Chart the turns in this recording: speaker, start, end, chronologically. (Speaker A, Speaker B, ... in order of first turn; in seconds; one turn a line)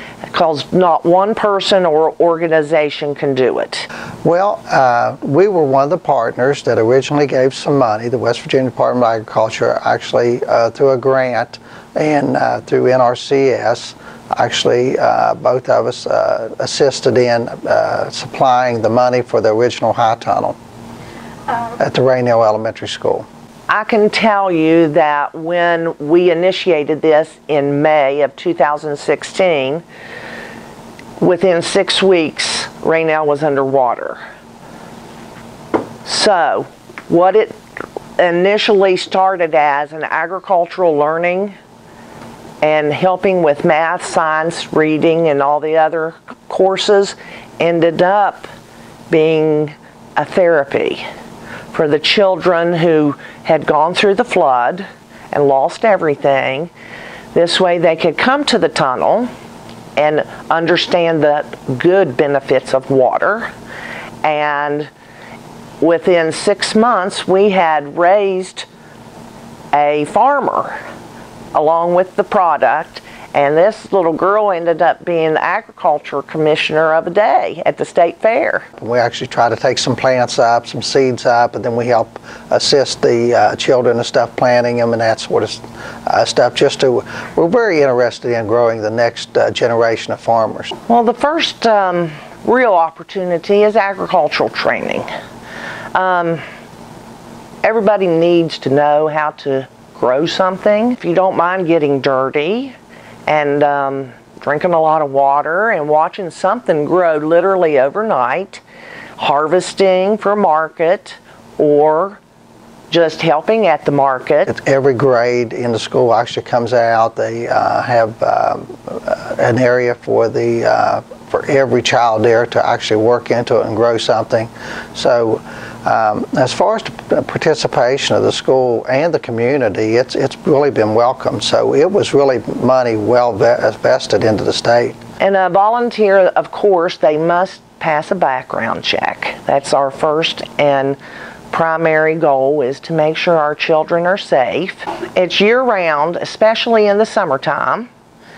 Speaker A: 0.3-3.9
Speaker B: 4.2-20.6
Speaker B: 21.8-23.3
Speaker A: 23.7-29.9
Speaker A: 31.2-34.2
Speaker A: 36.0-37.6
Speaker A: 38.2-41.5
Speaker A: 42.6-48.5
Speaker A: 49.1-51.0
Speaker A: 51.7-56.7
Speaker A: 57.3-59.3
Speaker A: 60.0-63.5
Speaker A: 64.2-64.9
Speaker A: 65.8-68.7
Speaker A: 69.7-70.8
Speaker A: 71.5-78.7
Speaker B: 78.8-90.7
Speaker A: 90.9-95.1
Speaker A: 95.9-96.4
Speaker A: 97.6-102.8
Speaker A: 103.3-108.6
Speaker A: 109.2-112.2
Speaker A: 112.9-114.5
Speaker B: 114.5-135.0
Speaker A: 135.2-141.0
Speaker A: 141.5-147.9